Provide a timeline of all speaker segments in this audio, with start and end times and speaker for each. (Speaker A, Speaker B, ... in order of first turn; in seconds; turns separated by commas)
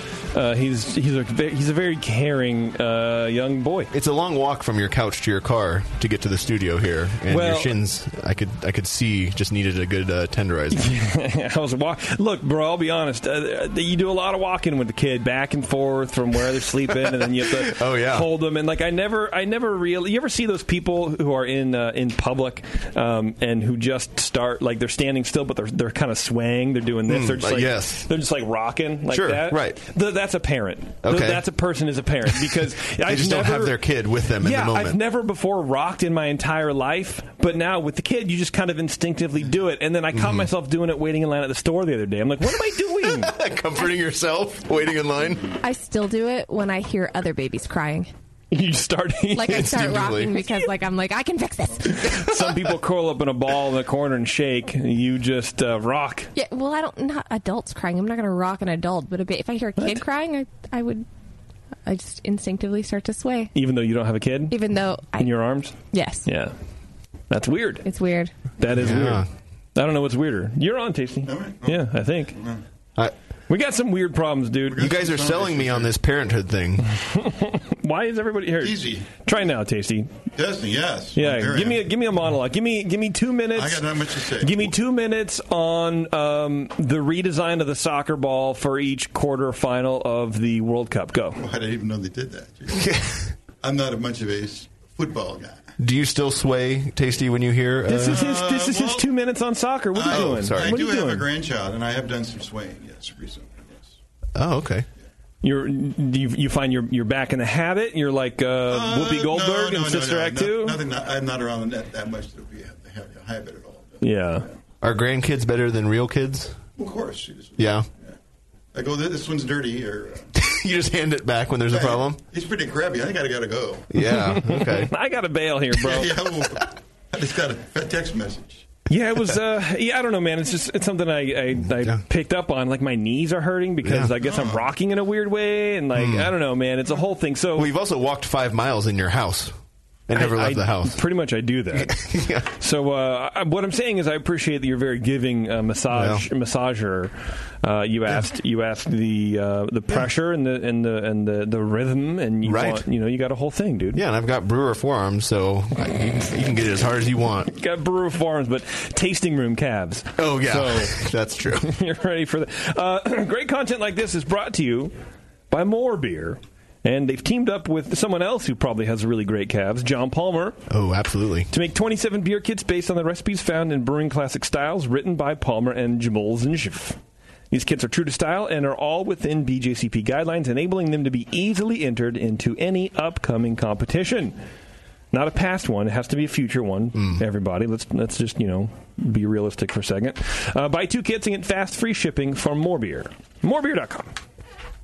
Speaker A: 0.3-3.9, Speaker B: 3.9-10.9, Speaker A: 7.3-7.7, Speaker A: 10.7-33.8, Speaker B: 17.0-18.3, Speaker B: 27.1-28.1, Speaker B: 29.1-29.8, Speaker B: 31.0-31.4, Speaker B: 33.0-35.0, Speaker A: 34.4-43.3, Speaker B: 40.1-40.5, Speaker B: 42.7-45.5, Speaker C: 45.6-48.1, Speaker A: 48.5-49.8, Speaker C: 49.3-52.0, Speaker B: 49.4-50.4, Speaker A: 51.9-56.3, Speaker B: 52.0-52.6, Speaker C: 56.4-61.0, Speaker C: 61.9-63.5, Speaker A: 63.5-64.6, Speaker C: 64.5-65.3, Speaker A: 65.2-66.5, Speaker C: 65.9-66.2, Speaker A: 67.3-67.8, Speaker C: 67.8-68.3, Speaker A: 68.6-72.3, Speaker B: 68.7-69.3, Speaker D: 71.2-72.6, Speaker A: 73.5-74.8, Speaker D: 74.7-75.9, Speaker B: 74.7-76.8, Speaker A: 77.0-80.1, Speaker D: 78.6-79.1, Speaker D: 80.3-81.9, Speaker A: 81.1-91.4, Speaker D: 83.5-84.7, Speaker D: 91.3-92.9, Speaker B: 92.7-93.3, Speaker D: 93.6-95.7, Speaker B: 95.8-98.3, Speaker A: 97.9-101.2, Speaker D: 98.0-99.1, Speaker D: 99.9-103.9, Speaker B: 100.1-100.8, Speaker B: 104.3-104.8, Speaker A: 105.4-110.8, Speaker D: 108.7-114.0, Speaker A: 114.0-114.5, Speaker B: 114.8-116.6, Speaker D: 116.8-118.1, Speaker B: 117.6-117.8, Speaker D: 118.7-120.3, Speaker B: 120.3-122.2, Speaker D: 121.7-123.9, Speaker B: 123.9-124.9, Speaker A: 123.9-126.1, Speaker D: 125.7-128.6, Speaker A: 128.9-137.7, Speaker B: 131.6-132.0, Speaker B: 133.8-134.1, Speaker D: 134.2-134.7, Speaker B: 135.9-136.3, Speaker B: 137.6-139.5, Speaker B: 140.1-141.0, Speaker A: 140.1-154.0, Speaker B: 141.7-142.5, Speaker B: 145.9-146.2, Speaker B: 152.4-152.8, Speaker B: 153.9-157.5, Speaker A: 157.5-161.0, Speaker B: 160.2-161.7, Speaker A: 161.6-164.9, Speaker A: 165.5-170.6, Speaker B: 170.7-171.5, Speaker A: 171.5-177.0, Speaker A: 177.5-184.4, Speaker A: 185.1-194.1, Speaker B: 186.9-187.2